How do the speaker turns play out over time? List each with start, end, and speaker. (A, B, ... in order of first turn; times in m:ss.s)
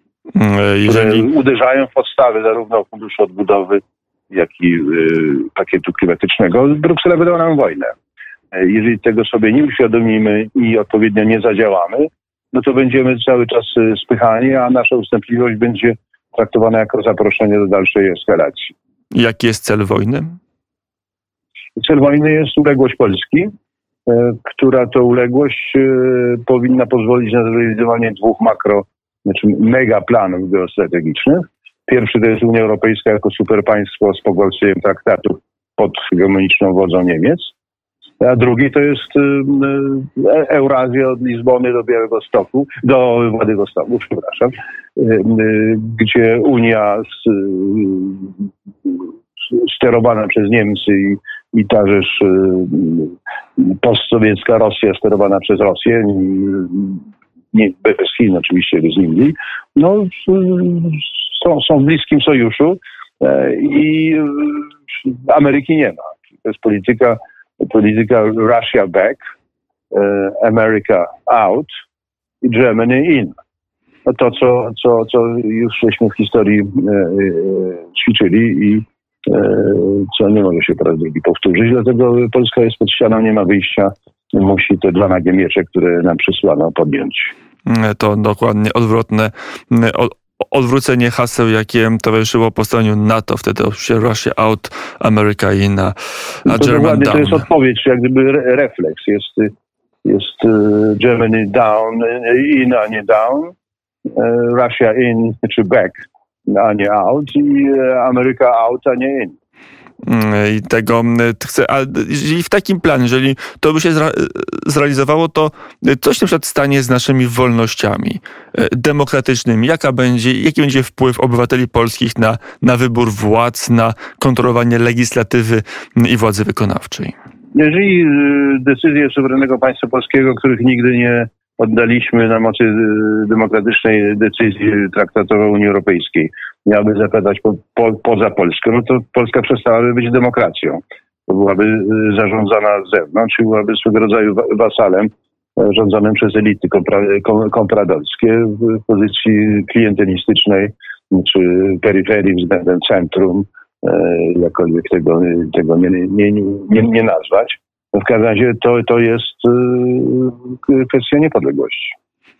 0:00.3-0:01.2 A
0:00.8-0:07.9 B
0:08.5-0:18.7 B
0:19.1-0:20.3 A
0:21.8-0:23.5 B
0:24.0-0:37.5 B
0:38.2-1:09.2 B
1:09.9-1:11.7 B
1:12.4-1:13.3 B
1:14.0-1:27.3 B
1:27.6-1:37.4 A
1:36.4-1:39.5 B
1:40.0-1:43.5 B
1:44.1-1:49.4 B
1:50.0-2:07.1 A
2:07.5-2:42.0 B